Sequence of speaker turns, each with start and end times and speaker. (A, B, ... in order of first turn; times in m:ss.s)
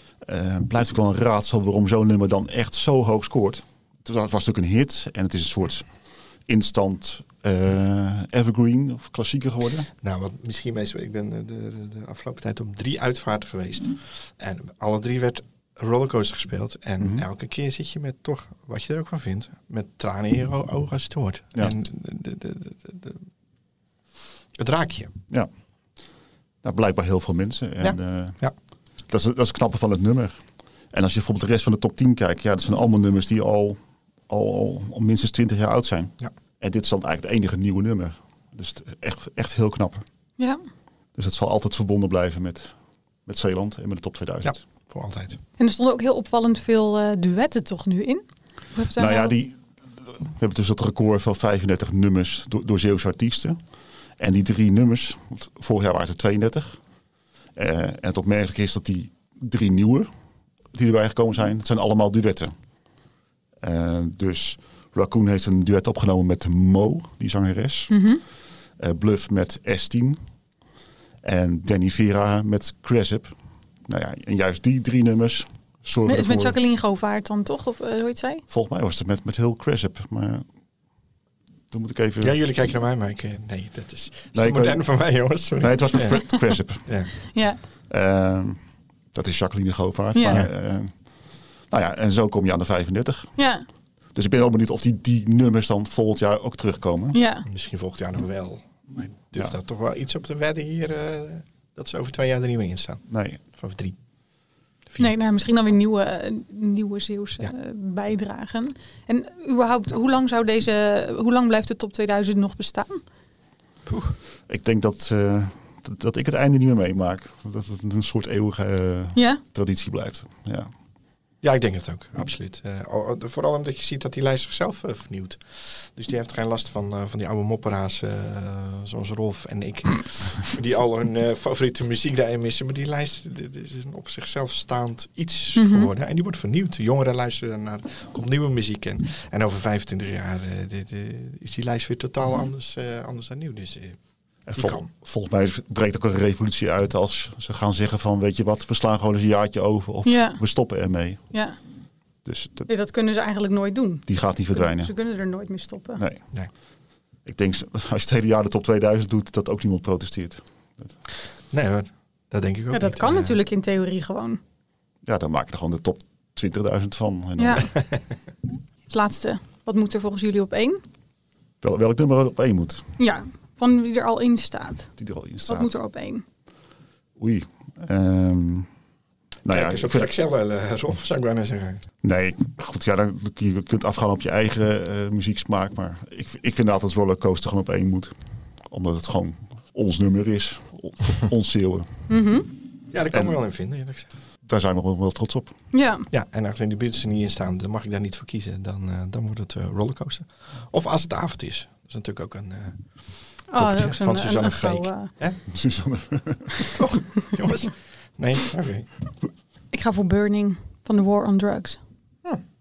0:00.2-0:09.9 A
0:10.0-0:23.2 B
0:17.0-0:17.2 A
0:24.5-0:25.1 B
0:26.6-0:28.4 A
0:27.8-0:28.5 B
0:29.0-0:40.0 A
0:40.4-0:40.6 C
0:41.1-0:44.6 A
0:44.4-0:45.4 B
0:45.6-0:49.3 C
0:49.0-0:53.6 A
0:54.2-0:56.8 A
0:57.5-1:00.1 A
1:00.7-1:02.5 A
1:03.6-1:08.0 A
1:07.9-1:08.2 C
1:08.7-1:10.2 A
1:11.2-1:16.6 A
1:16.0-1:18.4 C
1:18.5-1:20.4 A
1:21.7-1:22.4 A
1:22.2-1:27.1 B
1:24.3-1:27.4 A
1:27.2-1:27.6 C
1:27.9-1:33.4 A
1:30.1-1:30.4 C
1:33.4-1:33.6 C
1:34.1-1:37.2 A
1:37.1-1:37.4 C
1:37.4-1:44.0 B
1:43.1-1:43.4 A
1:45.0-1:53.0 C
1:53.8-1:54.2 B
1:54.5-2:00.7 A
1:59.1-1:59.4 C
2:01.4-2:24.9 B
2:15.6-2:15.9 C
2:24.5-2:31.4 A
2:30.0-2:30.6 C
2:31.3-2:31.6 C
2:32.2-2:32.7 A
2:32.7-2:36.0 C
2:34.1-2:34.9 A
2:36.0-2:36.3 A
2:37.2-2:41.0 A
2:41.5-2:43.4 B
2:42.7-2:44.4 C
2:45.0-2:47.7 A
2:47.4-2:47.7 C
2:48.9-2:50.8 C
2:51.6-2:53.0 A
2:53.0-2:56.2 C
2:55.0-2:55.7 A
2:57.2-2:58.7 A
2:59.4-3:00.1 A
2:59.4-3:01.8 B
3:02.0-3:12.1 A
3:12.1-3:12.5 C
3:12.9-3:14.1 B
3:14.4-3:15.6 A
3:15.7-3:16.1 C
3:16.1-3:25.4 B
3:23.5-3:25.1 C
3:25.5-3:26.7 A
3:26.7-3:29.0 B
3:29.7-3:31.8 C